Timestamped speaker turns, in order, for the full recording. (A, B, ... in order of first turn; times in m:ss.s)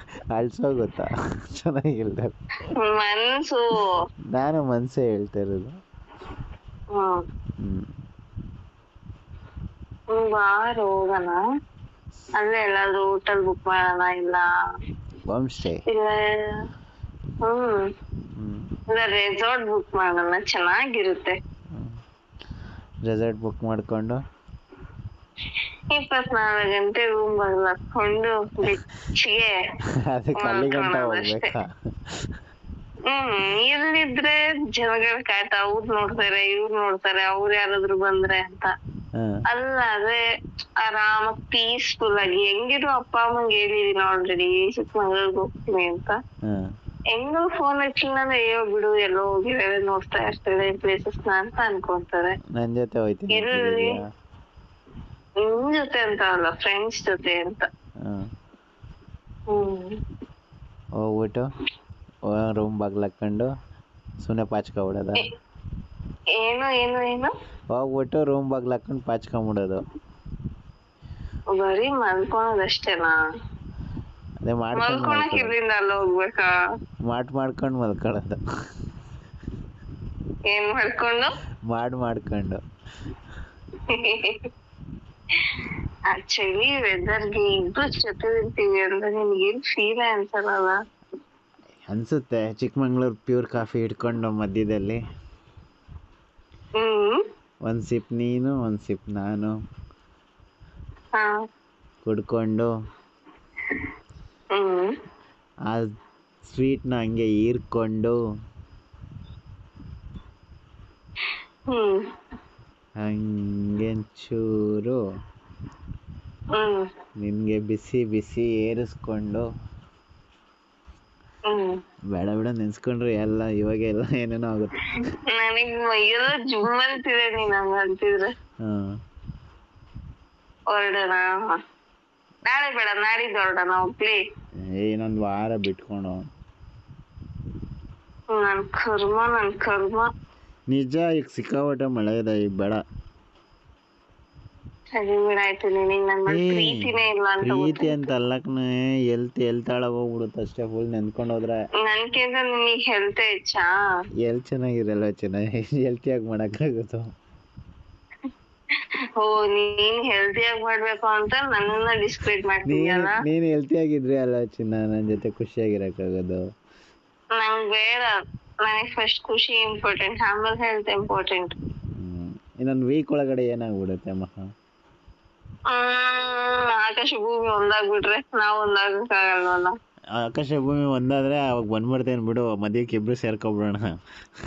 0:00.3-0:02.4 A
0:02.8-0:04.0 B
0:04.3-0:05.7 A
0:06.9-0:07.2 B
0:07.6-0:07.9 A
0:10.1-0:11.4 B
0:12.4-0:14.5 B
0:15.3-0:15.8 A
0:15.9-0:16.7 B
0:17.4-0:17.9 B
0:18.4-0:18.7 A
0:18.9-0:21.4 B
0:23.0-0:24.2 A
0:25.9-0:29.6 B
0:30.1-0:31.7 A
0:30.4-0:31.5 B
0:33.1-0:38.7 B
0:39.5-0:40.2 B
0:40.8-0:46.2 B
0:46.4-0:46.7 A
0:47.1-0:52.4 B
0:52.6-0:54.0 A
0:53.3-0:54.0 B
0:55.4-0:57.7 B
0:59.5-1:00.0 B
1:01.0-1:01.5 A
1:02.3-1:03.5 A
1:04.2-1:05.3 A
1:06.4-1:07.3 B
1:07.7-1:09.8 A
1:11.5-1:13.2 B
1:14.4-1:15.5 A
1:14.8-1:16.5 B
1:17.1-1:18.4 A
1:20.5-1:21.3 B
1:21.7-1:22.6 A
1:23.9-1:24.5 B
1:25.4-1:30.8 B
1:31.9-1:35.0 A
1:36.8-1:37.2 B
1:37.7-1:39.5 A
1:42.0-1:42.7 A
1:44.5-1:44.9 B
1:46.5-1:48.2 A
1:51.7-1:52.0 B
1:53.0-1:55.0 A
1:56.6-1:56.9 B
1:57.2-1:59.5 A
2:01.5-2:01.8 B
2:02.1-2:05.1 A
2:05.3-2:08.3 B
2:08.6-2:09.0 A
2:10.7-2:11.6 B
2:12.5-2:14.2 B
2:14.8-2:16.2 A
2:18.3-2:20.1 B
2:20.7-2:22.8 A
2:24.9-2:28.1 B
2:26.3-2:31.6 A
2:31.8-2:33.7 B
2:34.2-2:37.0 A
2:39.2-2:43.2 B
2:42.7-2:46.4 A
2:47.4-2:51.6 B
2:52.0-2:54.4 A
2:55.7-2:59.7 B
3:00.2-3:03.9 A